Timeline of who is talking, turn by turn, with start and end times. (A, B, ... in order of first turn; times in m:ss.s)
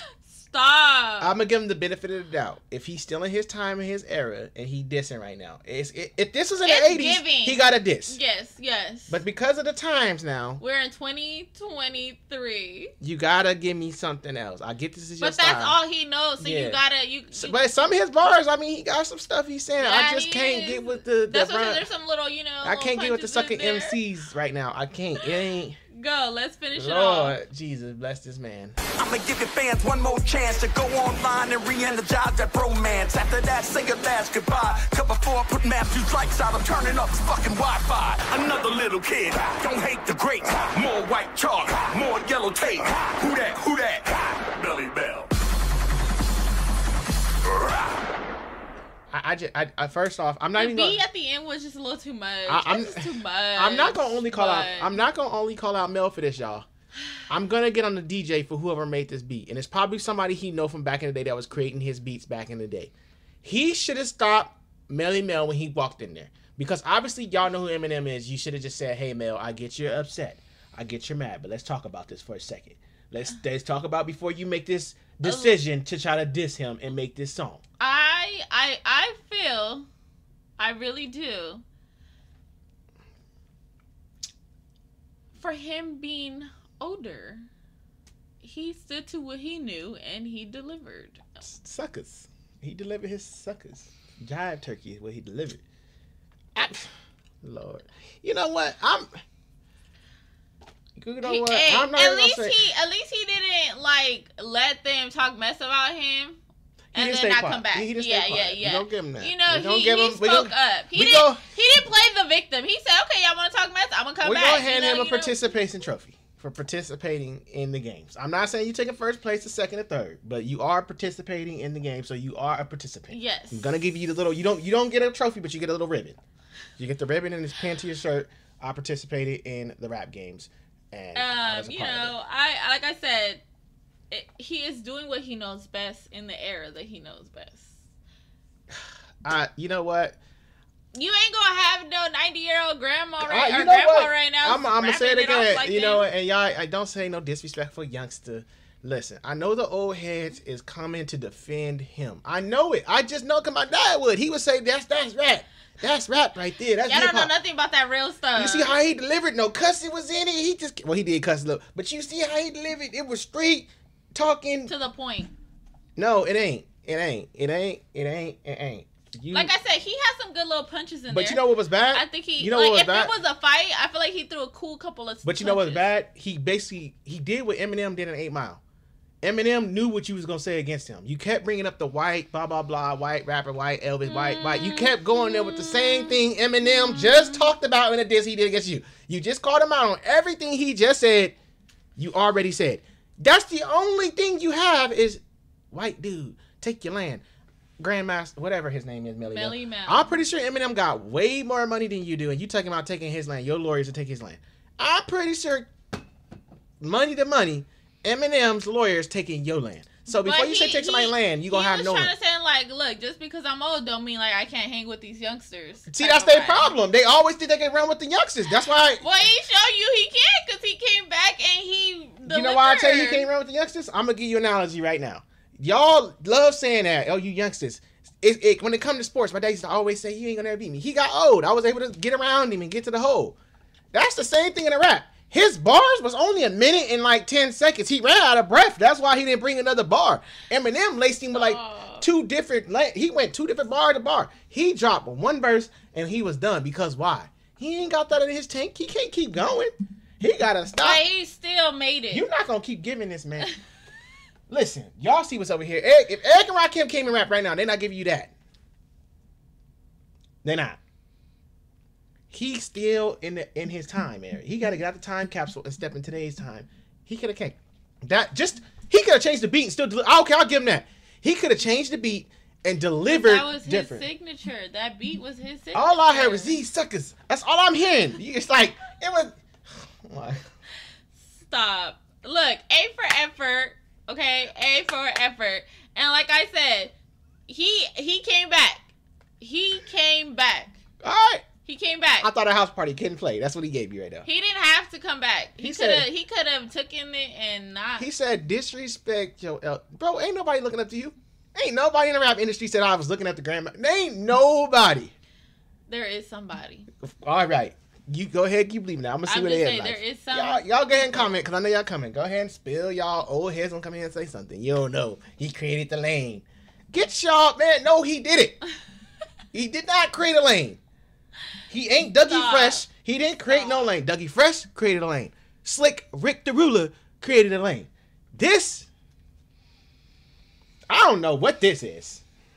0:00.3-0:01.4 A
0:01.2-0:08.2 B
0:06.6-0:09.2 A
0:09.1-0:10.6 B
0:10.6-0:12.9 A
0:13.0-0:15.8 B
0:15.2-0:17.6 A
0:16.4-0:16.8 B
0:17.3-0:21.8 B
0:19.8-0:24.0 A
0:22.6-0:25.8 B
0:25.2-0:27.4 A
0:26.8-0:28.8 B
0:29.0-0:45.3 C
0:47.4-0:48.0 C
0:49.1-0:51.0 B
0:50.6-0:55.0 A
0:52.5-0:56.7 B
0:57.3-1:02.9 B
1:03.4-1:17.6 B
1:15.2-1:15.6 A
1:17.8-1:19.9 A
1:20.6-1:21.6 A
1:25.4-1:27.5 A
1:28.4-1:31.4 A
1:31.4-1:35.6 B
1:36.6-1:36.9 B
1:37.4-1:39.1 B
1:41.0-1:42.6 B
1:41.2-1:46.4 A
1:46.9-1:51.4 B
1:47.0-1:55.6 A
1:54.2-2:06.2 B
2:03.1-2:03.8 A
2:06.8-2:12.1 B
2:11.2-2:13.4 A
2:14.1-2:17.8 A
2:19.2-2:20.2 B
2:20.9-2:26.1 A
2:23.2-2:37.3 B
2:36.8-2:38.8 A
2:38.4-2:44.7 B
2:44.7-2:45.3 A
2:46.0-2:49.5 B
2:49.3-2:55.9 A
2:51.1-2:53.1 B
2:55.2-2:58.6 B
2:59.2-3:11.4 B
3:04.0-3:07.5 A
3:12.0-3:17.2 B
3:17.8-3:25.7 B
3:19.2-3:20.2 A
3:26.8-3:32.1 B
3:30.1-3:36.7 A
3:35.9-3:39.0 B
3:39.0-3:43.3 A
3:42.3-3:53.4 B
3:53.9-4:11.0 B
4:01.3-4:02.1 A
4:10.8-4:12.3 A
4:12.1-4:13.5 B
4:14.5-4:18.3 B
4:20.4-4:20.8 B
4:22.3-4:34.1 B
4:33.1-4:36.6 A
4:35.7-4:40.5 B
4:41.3-4:46.9 A
4:47.5-4:48.9 A
4:49.4-4:50.8 A
4:51.0-4:51.4 B
4:51.6-4:52.3 A
4:52.2-4:54.3 B
4:54.2-4:58.1 A
4:55.6-4:56.1 B
4:58.0-5:05.1 B
5:05.9-5:06.9 A
5:07.0-5:18.6 B
5:09.3-5:11.3 A
5:19.5-5:20.8 B
5:21.7-5:28.9 B
5:22.2-5:22.9 A
5:23.5-5:23.9 A
5:30.9-5:32.2 B